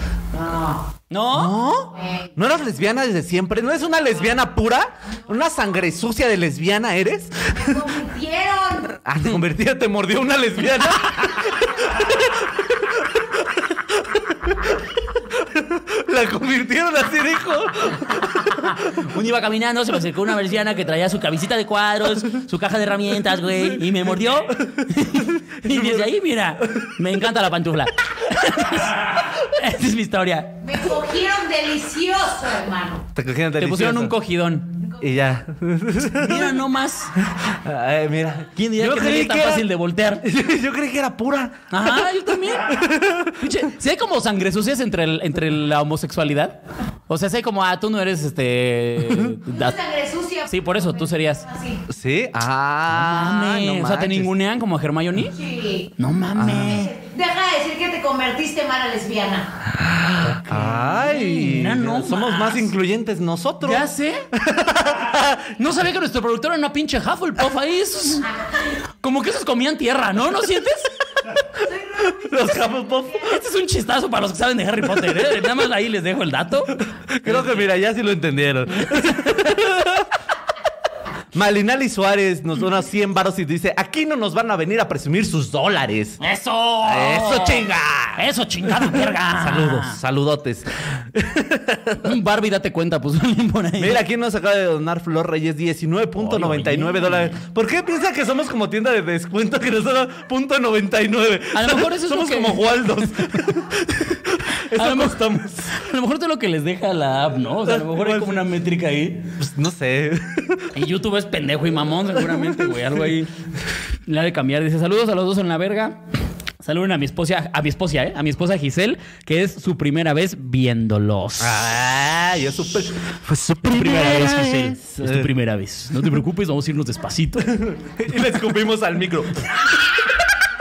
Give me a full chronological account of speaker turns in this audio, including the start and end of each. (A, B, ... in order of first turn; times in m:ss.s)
0:00.3-0:00.8 A
0:01.1-0:01.6 B
0:01.3-0:07.8 C
0:07.6-0:09.0 A
0:09.0-0:14.8 C
0:15.3-0:18.7 C
0:18.5-0:30.6 B
0:24.8-0:26.1 C
0:30.6-0:33.0 A
0:33.2-0:34.2 C
0:33.6-0:34.8 B
0:35.0-0:36.6 C
0:36.1-0:37.2 B
0:37.2-0:39.7 C
0:38.6-0:40.3 B
0:40.2-0:43.5 C
0:41.7-0:49.8 B
0:49.5-0:51.8 A
0:50.5-0:51.5 B
0:51.9-0:54.3 C
0:52.9-0:55.4 B
0:55.3-0:55.9 A
0:56.0-0:56.9 B
0:56.3-0:56.8 C
0:56.7-0:59.5 A
0:59.7-1:05.6 C
1:00.2-1:02.7 B
1:03.6-1:04.3 B
1:05.6-1:08.3 B
1:09.0-1:10.9 B
1:11.7-1:12.6 A
1:12.0-1:13.4 C
1:13.2-1:17.7 B
1:16.8-1:20.1 C
1:18.8-1:19.3 B
1:21.3-1:26.2 C
1:26.2-1:30.0 B
1:26.8-1:32.1 C
1:32.0-1:34.0 B
1:33.8-1:45.7 C
1:36.2-1:37.4 B
1:41.5-1:43.4 B
1:44.7-1:49.3 B
1:47.7-1:48.4 C
1:49.4-1:50.7 C
1:50.7-1:53.3 B
1:52.3-1:52.7 C
1:54.1-1:56.0 B
1:56.6-2:01.7 B
2:01.4-2:05.3 C
2:03.3-2:07.6 B
2:07.5-2:09.6 C